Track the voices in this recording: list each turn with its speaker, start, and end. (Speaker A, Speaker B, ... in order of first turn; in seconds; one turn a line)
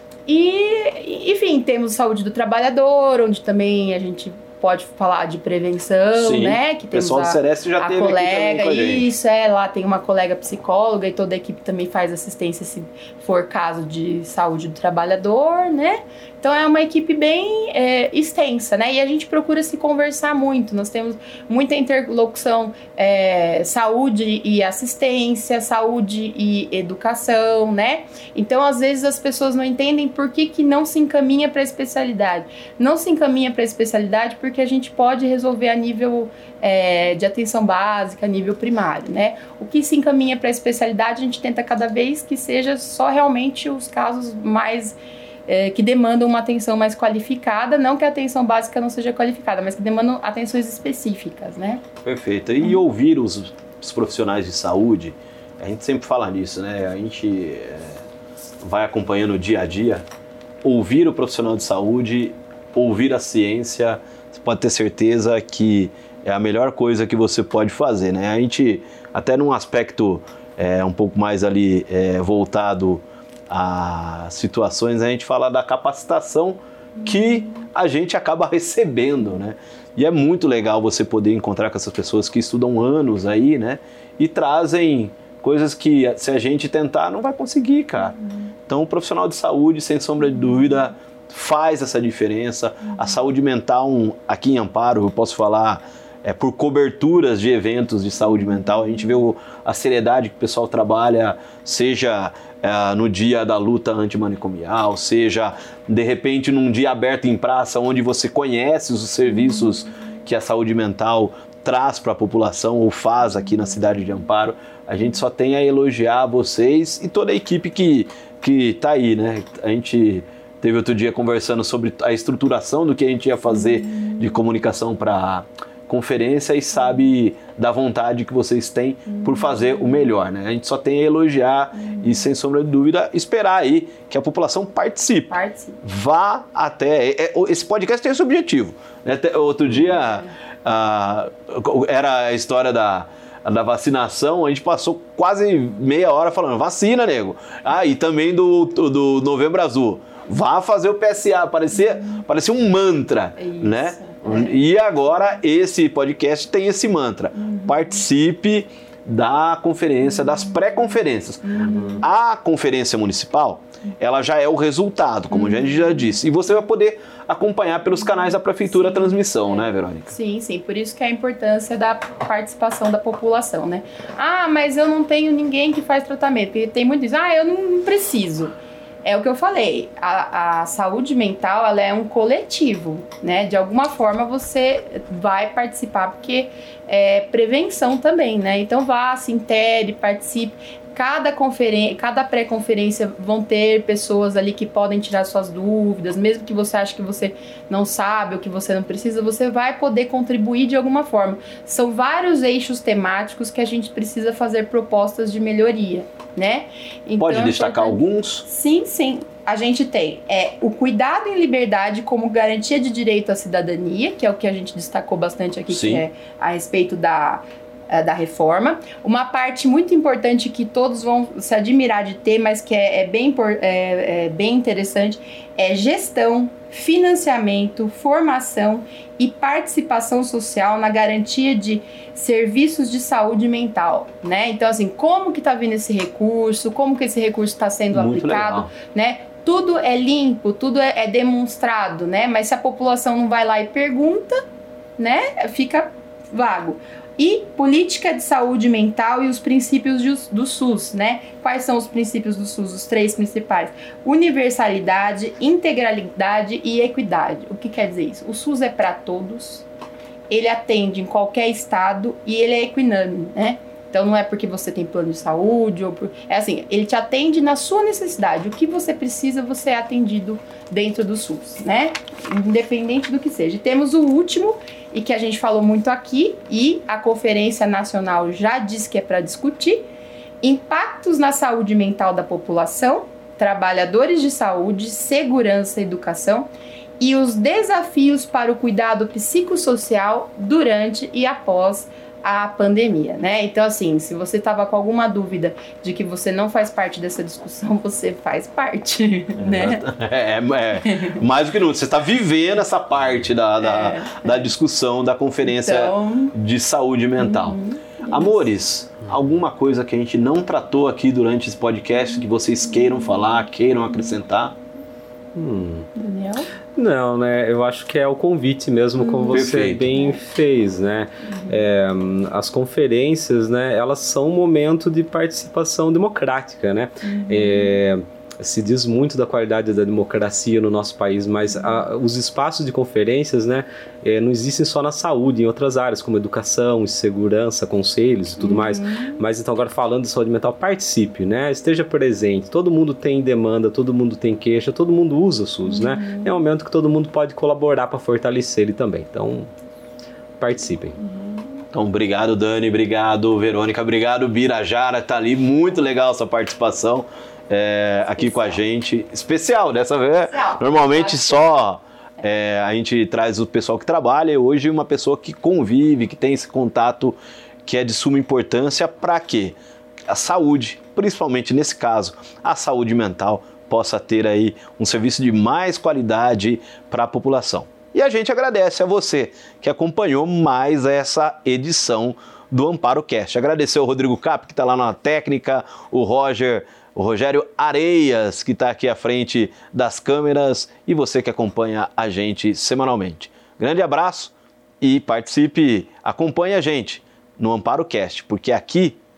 Speaker A: 0.3-51.8
Speaker B: 6.2-9.1
Speaker B: 52.0-58.0
Speaker B: 58.6-60.0
Speaker B: 60.6-170.1
Speaker A: 129.1-130.0
Speaker A: 131.8-132.1
Speaker A: 135.3-135.8
Speaker A: 153.4-154.6
Speaker A: 157.4-157.7
Speaker A: 161.4-162.0
Speaker A: 165.3-165.7
Speaker A: 168.7-244.4
Speaker B: 207.2-208.4
Speaker B: 215.7-216.0
Speaker B: 237.9-238.7
Speaker A: 245.0-259.6
Speaker A: 260.3-279.8
Speaker A: 280.4-286.5
Speaker A: 287.0-299.8
Speaker B: 299.4-307.6
Speaker A: 300.8-301.2
Speaker A: 303.6-304.5
Speaker A: 305.4-306.3
Speaker A: 307.2-308.5
Speaker B: 308.1-314.6
Speaker C: 315.3-315.9
Speaker A: 315.9-316.5
Speaker C: 316.7-349.5
Speaker A: 319.0-319.6
Speaker B: 319.3-320.0
Speaker A: 321.3-321.6
Speaker A: 327.0-327.7
Speaker A: 338.4-339.2
Speaker A: 345.7-346.4
Speaker C: 350.4-351.0
Speaker A: 351.0-351.4
Speaker B: 351.7-369.6
Speaker A: 360.3-361.5
Speaker B: 370.1-399.0